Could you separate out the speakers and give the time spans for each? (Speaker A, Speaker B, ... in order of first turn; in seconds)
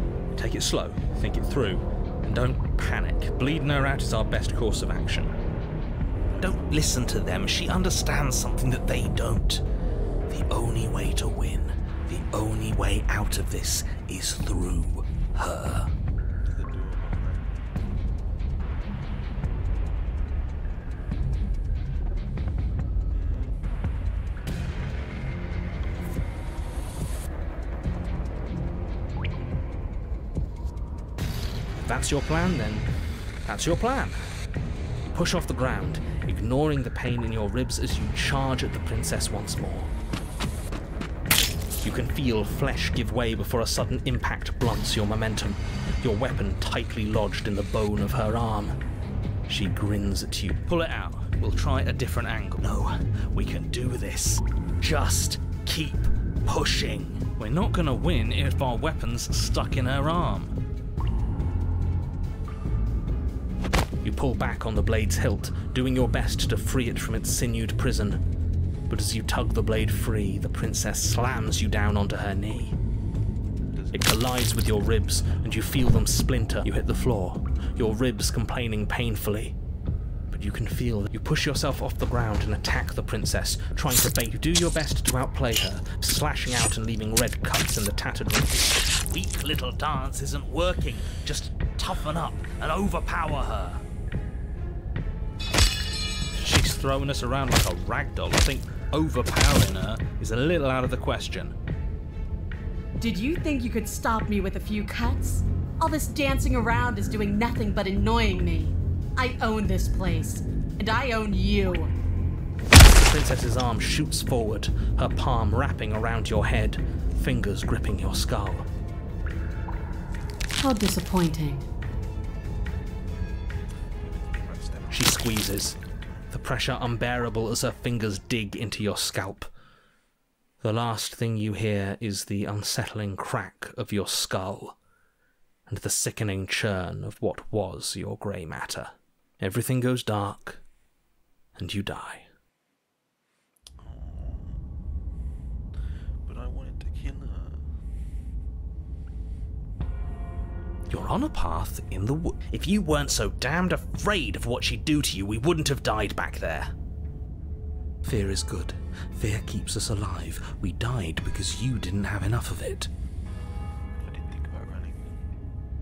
Speaker A: 0.3-5.3, 6.4-9.6, 10.3-15.9, 31.9-32.9, 33.5-34.2, 35.1-39.9, 41.8-48.8, 49.5-60.5, 64.0-68.2, 68.9-72.8, 73.9-79.6, 80.3-93.8, 96.3-101.5, 112.8-118.7, 124.9-125.8, 126.3-129.5, 130.6-134.8, 135.7-140.6, 141.6-142.3, 150.9-156.7, 158.0-162.9
Speaker B: 6.2-6.9, 16.4-17.6, 23.1-23.6, 73.7-74.3, 124.0-125.9, 143.8-144.6, 146.2-147.7, 163.9-165.2
Speaker C: 103.0-111.9, 120.6-121.7